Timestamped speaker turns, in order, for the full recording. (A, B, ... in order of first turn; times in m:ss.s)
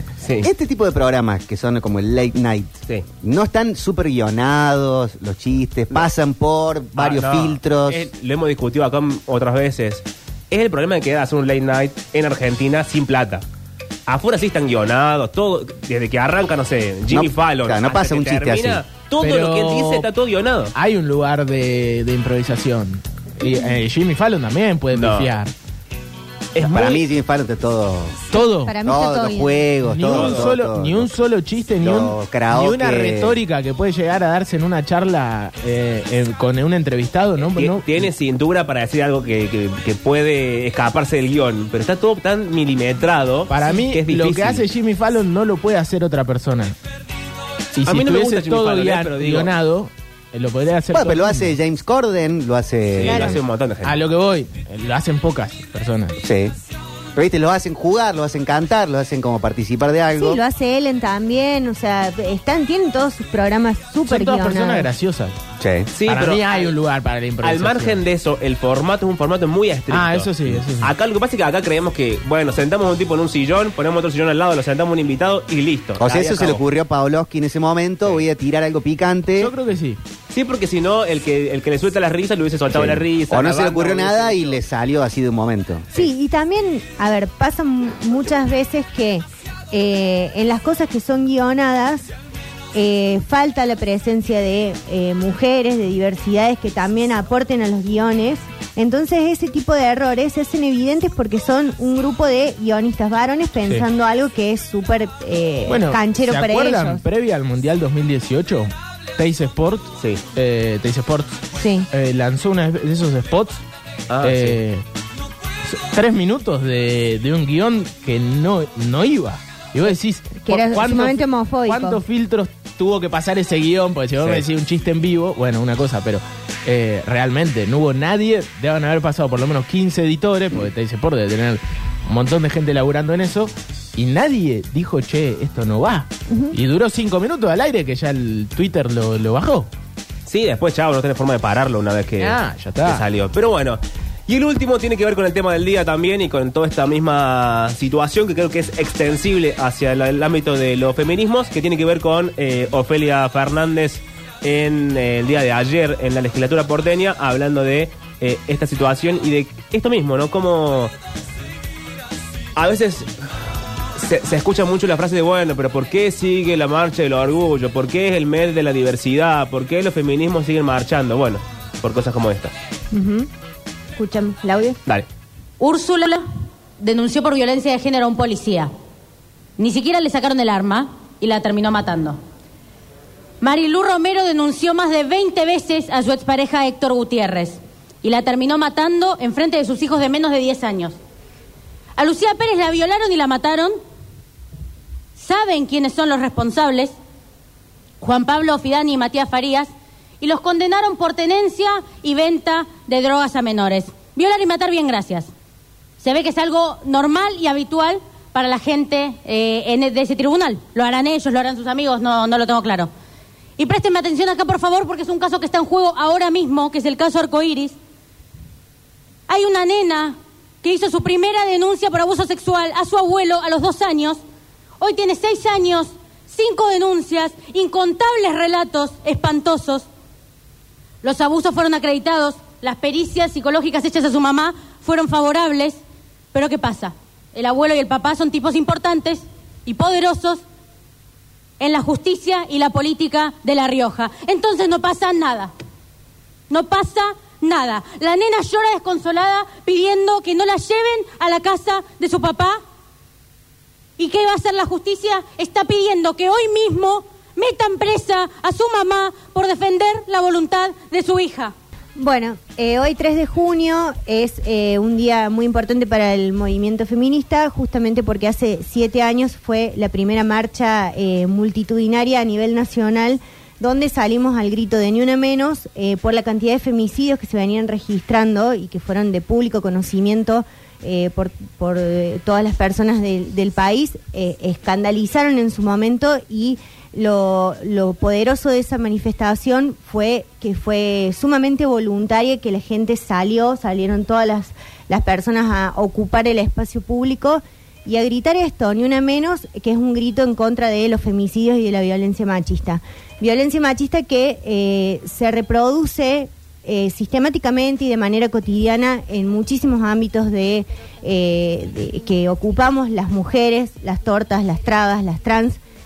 0:00.2-0:00.5 A
0:00.4-0:08.1 B
0:07.0-0:13.4 A
0:14.1-0:20.7 A
0:17.1-0:18.8 B
0:19.2-0:20.1 C
0:20.7-0:25.5 C
0:24.9-0:25.3 A
0:26.5-0:27.0 A
0:26.6-0:28.2 B
0:28.3-0:28.7 C
0:28.6-0:29.7 D
0:28.8-0:31.1 B
0:29.8-0:38.1 C
0:30.0-0:30.5 A
0:31.8-0:33.4 B
0:37.5-0:44.6 A
0:43.5-0:46.8 C
0:47.8-0:51.6 C
0:47.8-0:49.5 A
0:50.9-0:53.4 B
0:52.9-0:54.0 A
0:53.0-0:53.4 D
0:53.8-0:56.2 C
0:56.2-0:56.5 B
0:57.2-1:00.4 B
1:00.2-1:04.9 D
1:04.0-1:05.4 C
1:05.6-1:05.9 B
1:05.9-1:06.7 A
1:06.1-1:08.0 C
1:07.4-1:16.6 A
1:09.9-1:10.9 C
1:16.0-1:19.5 B
1:19.4-1:20.0 C
1:20.3-1:24.6 A
1:22.7-1:25.9 B
1:25.9-1:32.1 D
1:32.7-1:47.0 D
1:45.7-1:53.6 C
1:51.6-1:51.9 D
1:54.1-1:54.6 A
1:54.2-1:54.8 C
1:55.7-2:19.7 C
2:00.4-2:02.0 D
2:04.2-2:04.4 A
2:16.3-2:16.6 D
2:20.2-2:40.9 A
2:22.2-2:23.0 C
2:42.6-2:43.1 A
2:43.9-2:52.5 A
2:52.9-2:53.3 D
2:54.0-2:54.8 D
2:55.6-2:56.2 E
2:56.8-2:58.7 E
2:59.6-3:02.2 E
3:03.4-3:11.0 E
3:12.0-3:13.8 E
3:15.2-3:16.9 E
3:18.0-3:25.3 E
3:26.0-3:32.9 E
3:33.6-3:37.8 E
3:39.3-3:44.2 E
3:44.8-3:49.9 E
3:51.0-3:55.8 E
3:56.3-4:00.4 E
4:01.6-4:05.5 E
4:06.5-4:12.6 E
4:14.0-4:21.5 E
4:22.0-5:15.6 D